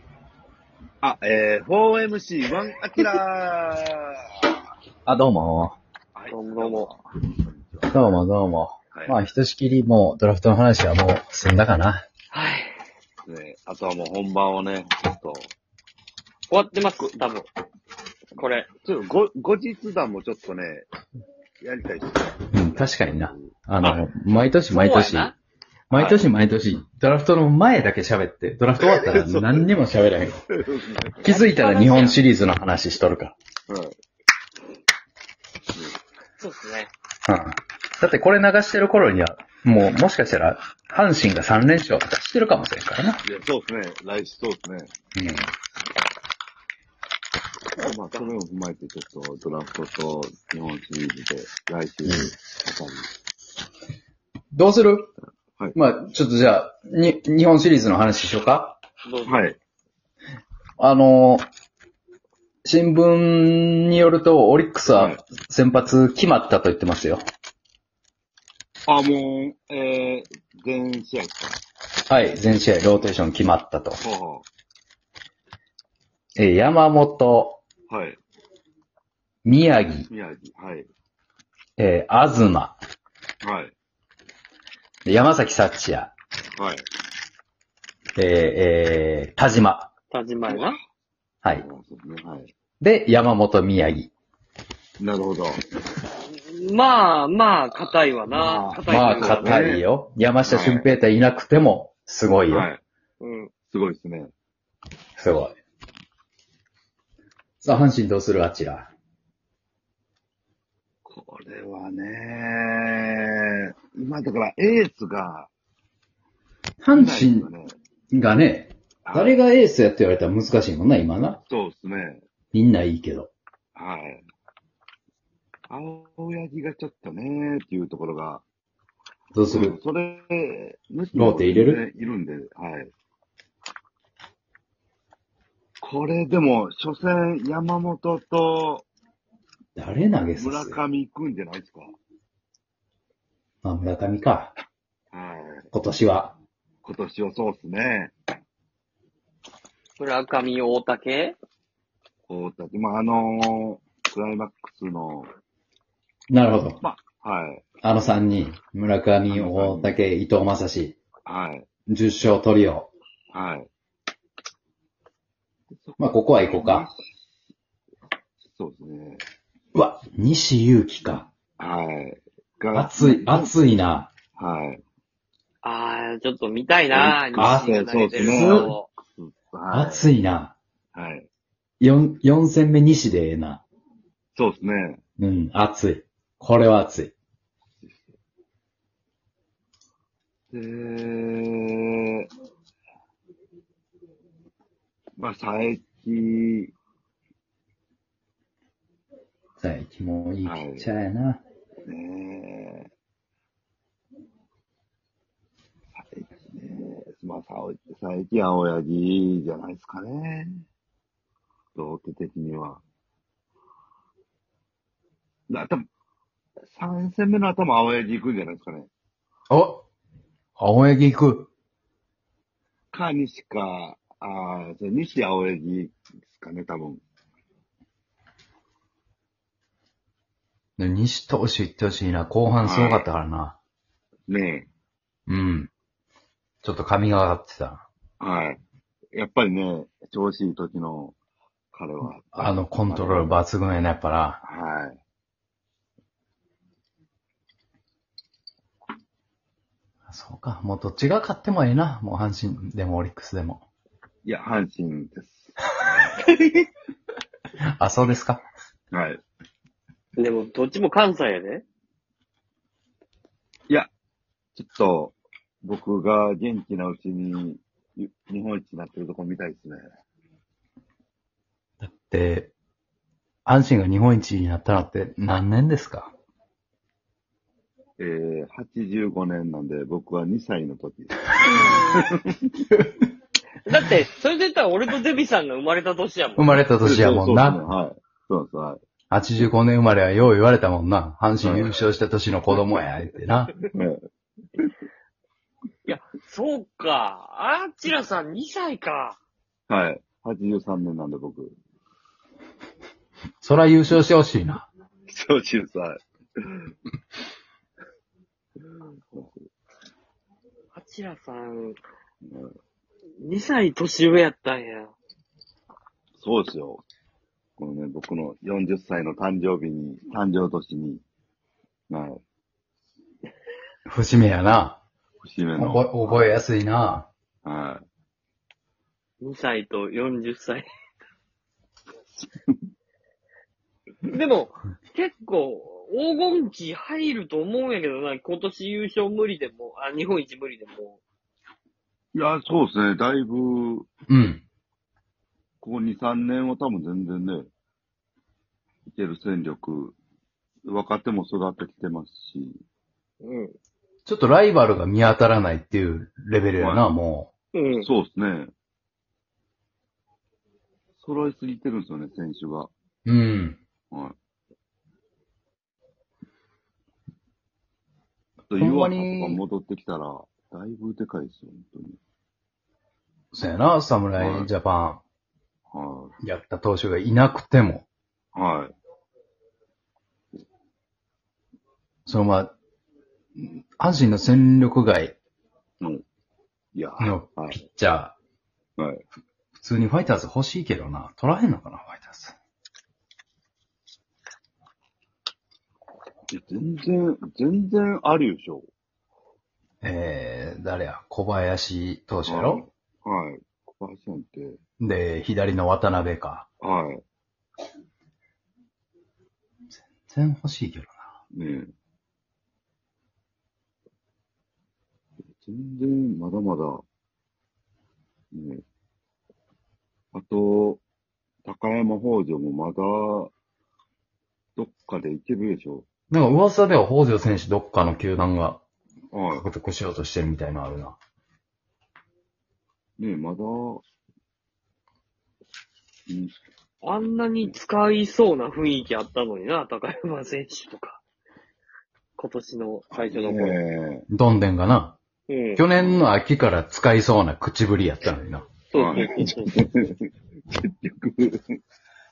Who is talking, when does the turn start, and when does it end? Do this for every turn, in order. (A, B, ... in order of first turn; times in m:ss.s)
0:01.0-0:04.2 A
0:05.0-0:05.8 B
0:06.1-0:08.2 A
0:06.3-0:06.9 C
0:07.9-0:12.0 B
0:12.3-0:12.7 C
0:13.2-0:15.5 A
0:16.5-0:17.5 C
0:18.4-0:18.7 C
0:18.4-0:20.9 A
0:21.6-0:23.5 A
0:22.5-0:25.3 B
0:23.8-0:24.1 C
0:24.7-0:25.3 C
0:25.9-0:30.4 B
0:25.9-0:26.3 A
0:28.8-0:29.7 A
0:30.6-0:31.2 A
0:31.2-0:33.3 B
0:31.2-0:32.2 C
0:33.7-0:34.0 A
0:36.4-0:36.9 C
0:37.3-0:43.2 B
0:43.2-0:44.9 A
0:45.2-0:45.5 B
0:47.8-0:48.3 C
0:47.8-0:53.1 A
0:54.5-0:55.1 B
0:55.7-0:58.8 B
0:59.0-0:59.4 C
0:59.2-0:59.6 A
1:00.8-1:01.5 B
1:02.6-1:07.2 B
1:04.9-1:05.2 A
1:08.9-1:11.6 A
1:12.1-1:14.0 B
1:14.0-1:14.4 A
1:16.4-1:17.6 B
1:17.9-1:18.2 A
1:19.4-1:20.1 B
1:20.1-1:20.9 A
1:21.8-1:22.8 B
1:23.4-1:23.7 A
1:25.0-1:26.1 B
1:26.6-1:26.8 A
1:28.2-1:29.9 B
1:30.1-1:30.8 C
1:30.5-1:30.8 A
1:31.5-1:32.5 A
1:32.8-1:34.1 B
1:35.0-1:35.6 A
1:36.3-1:39.6 C
1:38.3-1:39.8 A
1:38.9-1:42.7 B
1:40.4-1:40.9 A
1:42.5-1:42.8 A
1:43.2-1:43.5 C
1:43.7-1:44.3 A
1:45.2-1:45.6 B
1:47.6-1:48.9 B
1:51.0-1:55.5 A
1:56.8-1:57.5 B
1:56.9-1:57.8 A
1:58.1-2:01.4 B
1:59.0-1:59.4 A
2:01.5-2:02.2 A
2:02.5-2:03.3 B
2:03.7-2:04.2 A
2:05.7-2:08.4 A
2:09.3-2:09.7 B
2:09.5-2:12.9 A
2:11.1-2:11.8 B
2:15.8-2:18.8 A
2:19.8-2:20.8 B
2:20.4-2:21.9 A
2:23.6-2:24.5 B
2:25.1-2:25.7 A
2:25.7-2:26.4 B
2:26.8-2:28.1 A
2:30.0-2:31.4 C
2:32.3-2:35.3 A
2:36.3-2:36.8 B
2:36.8-2:37.7 A
2:37.8-2:41.0 B
2:39.3-2:40.0 A
2:41.2-2:41.7 A
2:41.9-2:42.9 B
2:43.3-2:43.7 A
2:45.8-2:47.3 A
2:46.0-2:46.8 B
2:48.4-2:49.2 A
2:49.7-2:51.3 B
2:51.6-2:53.6 A
2:52.7-2:54.1 B
2:54.4-2:54.8 A
2:55.6-2:58.9 C
2:56.9-3:00.1 A
2:57.4-2:58.7 B
2:59.7-3:00.6 B
3:00.9-3:01.3 A
3:01.8-3:03.6 B
3:04.3-3:05.0 A
3:05.2-3:07.1 B
3:07.8-3:08.1 A
3:10.5-3:12.3 A
3:15.2-3:16.7 A
3:19.6-3:21.4 B
3:20.4-3:20.9 A
3:21.8-3:22.9 A
3:25.9-3:30.6 A
3:31.7-3:32.8 A
3:35.5-3:35.8 A
3:36.7-3:38.9 A
3:39.5-3:39.8 B
3:40.6-3:41.5 B
3:42.9-3:47.0 A
3:50.8-3:53.6 B
3:52.6-3:53.1 A
3:54.3-3:54.7 A
3:55.3-3:55.7 B
3:56.6-3:57.9 B
3:58.2-3:58.6 A
3:59.1-4:01.2 A
4:01.7-4:03.4 A
4:02.3-4:04.4 B
4:04.4-4:05.0 A
4:10.1-4:13.6 B
4:14.2-4:16.1 A
4:17.8-4:18.4 B
4:18.9-4:19.2 A
4:20.2-4:21.6 C
4:24.6-4:29.8 A
4:31.8-4:32.5 B
4:33.4-4:36.1 B
4:38.0-4:42.3 A
4:41.6-4:42.0 C
4:43.6-4:46.6 C
4:46.4-4:47.6 B
4:46.8-4:48.8 A
4:49.1-4:53.5 B
4:51.4-4:51.7 A
4:53.7-4:54.0 A
4:55.8-4:59.2 C
4:59.7-5:01.6 A
5:03.4-5:04.7 B
5:05.1-5:06.6 A
5:09.1-5:09.4 A
5:10.7-5:11.8 C
5:12.2-5:12.5 A
5:13.2-5:14.9 C
5:16.2-5:16.8 A
5:17.6-5:21.0 A
5:21.9-5:22.2 A
5:23.9-5:24.8 B
5:25.2-5:26.4 A
5:25.6-5:27.1 B
5:27.4-5:27.8 A
5:29.2-5:30.6 C
5:34.1-5:41.0 C
5:42.1-5:43.9 A
5:44.1-5:44.4 B
5:45.6-5:47.5 A
5:48.9-5:50.0 A
5:50.6-5:52.6 A
5:53.2-5:53.5 C
5:54.0-5:57.3 B
5:56.6-5:56.9 A
5:57.5-5:57.9 C
5:57.8-5:58.5 A
6:01.0-6:02.7 A
6:03.0-6:03.6 B
6:08.5-6:12.0 A
6:08.6-6:09.4 B
6:13.3-6:15.0 B
6:14.2-6:14.5 A
6:15.7-6:16.1 A
6:16.2-6:17.8 B
6:18.3-6:18.7 A
6:22.0-6:22.5 B
6:23.4-6:25.2 B
6:26.7-6:27.6 A
6:27.0-6:28.1 B
6:28.8-6:29.0 A
6:29.6-6:32.4 B
6:36.3-6:38.6 A
6:39.8-6:42.6 B
6:42.2-6:44.6 A
6:44.8-6:46.5 B
6:46.6-6:47.0 A
6:49.7-6:51.1 B
6:51.3-6:51.7 A
6:55.4-6:56.8 A
6:58.3-6:58.6 A
7:00.1-7:00.8 A
7:01.4-7:03.3 A
7:04.6-7:05.8 A
7:06.1-7:08.6 B
7:09.1-7:09.5 A
7:09.3-7:11.0 B
7:13.0-7:13.8 A
7:16.1-7:16.3 A
7:16.8-7:21.0 C
7:22.2-7:23.6 C
7:23.0-7:24.0 A
7:24.1-7:25.0 B
7:25.3-7:25.7 C
7:25.6-7:28.5 B
7:25.8-7:26.0 A
7:28.7-7:29.6 C
7:28.7-7:31.6 A